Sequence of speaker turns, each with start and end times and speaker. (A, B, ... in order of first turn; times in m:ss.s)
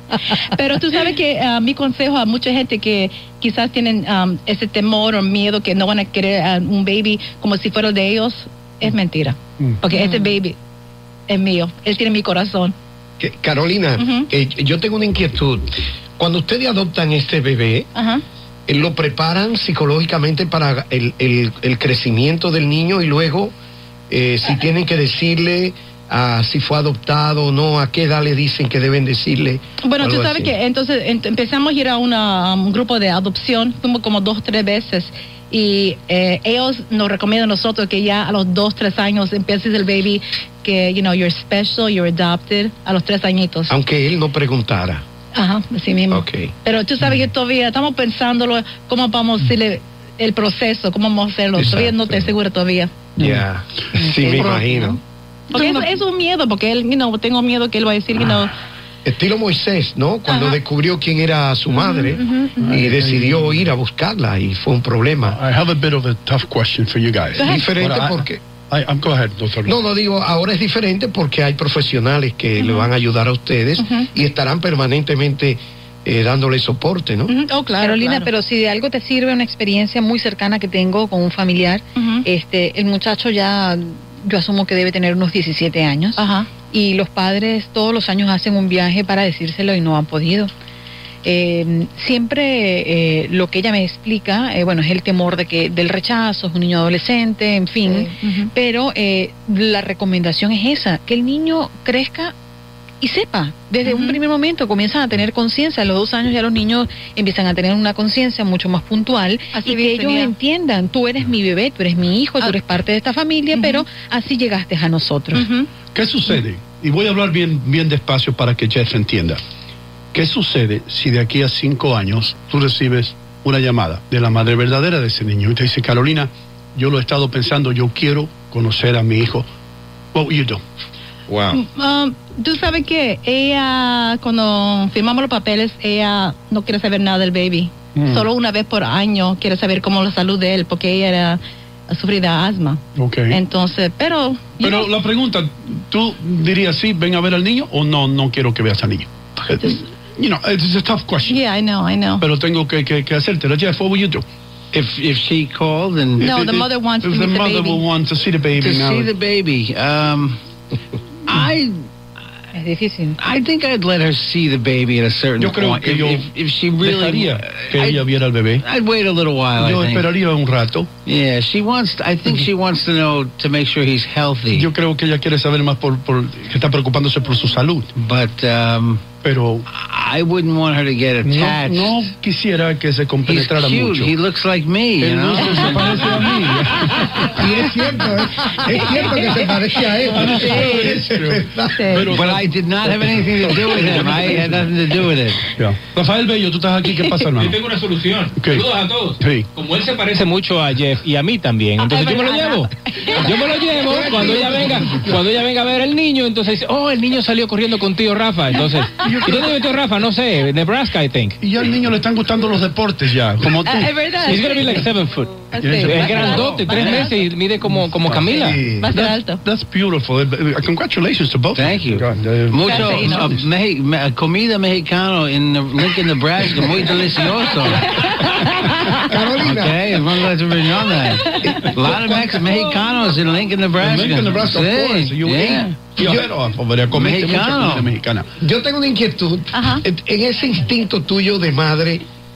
0:00.4-0:10.6 A
0:09.9-0:10.3 B
0:11.3-0:12.8 A
0:13.2-0:17.9 C
0:14.0-0:14.3 A
0:18.0-0:18.2 A
0:18.7-0:23.6 C
0:24.1-0:30.5 C
0:29.8-0:43.7 A
0:43.7-0:45.0 C
0:45.3-0:53.1 A
0:46.1-0:46.5 C
0:51.6-0:52.4 C
0:53.2-0:55.0 C
0:54.0-0:54.8 B
0:54.2-0:54.7 A
0:55.5-0:58.5 A
0:59.0-1:05.4 C
1:00.3-1:00.6 A
1:01.7-1:02.8 A
1:02.6-1:03.7 D
1:05.2-1:09.8 D
1:07.4-1:07.7 A
1:07.4-1:08.4 C
1:09.6-1:17.3 C
1:12.6-1:12.9 A
1:13.8-1:14.1 A
1:17.3-1:18.3 A
1:17.8-1:30.5 B
1:22.0-1:22.3 A
1:26.2-1:26.5 A
1:31.2-1:42.3 B
1:37.8-1:38.5 A
1:43.0-1:55.5 B
1:43.8-1:44.2 A
1:49.5-1:50.3 A
1:53.5-1:53.8 A
1:55.3-1:55.7 A
1:55.9-1:59.4 D
2:00.1-2:09.5 D
2:10.1-2:10.6 D
2:11.3-2:11.6 C
2:11.5-2:24.9 A
2:18.0-2:18.3 D
2:23.0-2:23.4 D
2:24.6-2:31.4 D
2:31.3-2:32.2 A
2:32.2-2:34.2 D
2:34.7-2:36.3 E
2:36.2-2:39.1 D
2:36.2-2:37.8 A
2:38.6-2:40.4 E
2:41.2-2:41.9 E
2:42.5-2:43.2 B
2:43.2-2:48.1 E
2:45.4-2:46.3 D
2:46.8-2:48.6 D
2:48.6-2:50.1 E
2:49.6-2:50.9 D
2:51.1-2:54.7 E
2:54.5-2:57.9 D
2:58.0-2:59.0 E
2:59.2-2:59.7 D
2:59.7-3:02.1 E
3:01.2-3:04.1 D
3:03.2-3:06.3 E
3:05.0-3:07.6 D
3:07.2-3:11.8 C
3:08.7-3:09.4 A
3:10.1-3:14.7 D
3:10.3-3:10.8 A
3:11.7-3:12.1 A
3:12.1-3:15.4 E
3:13.6-3:14.4 C
3:15.6-3:17.6 D
3:17.3-3:31.4 F
3:18.4-3:18.7 D
3:19.2-3:19.5 D
3:21.8-3:23.7 A
3:23.8-3:25.2 C
3:29.0-3:29.6 D
3:31.4-3:34.0 D
3:33.6-3:34.9 A
3:34.2-3:38.6 F
3:35.5-3:37.3 A
3:35.6-3:36.6 D
3:36.6-3:37.1 E
3:37.6-3:38.3 D
3:38.3-3:38.9 C
3:38.8-3:39.4 A
3:38.9-3:43.4 D
3:41.6-3:48.2 E
3:42.7-3:43.3 A
3:48.0-3:48.8 A
3:48.9-3:50.0 C
3:49.4-3:55.8 E
3:51.2-3:51.7 A
3:51.5-3:52.0 C
3:53.8-3:58.3 D
3:56.0-3:56.3 C
3:56.9-3:58.0 E
3:58.4-4:02.0 C
3:59.5-3:59.8 A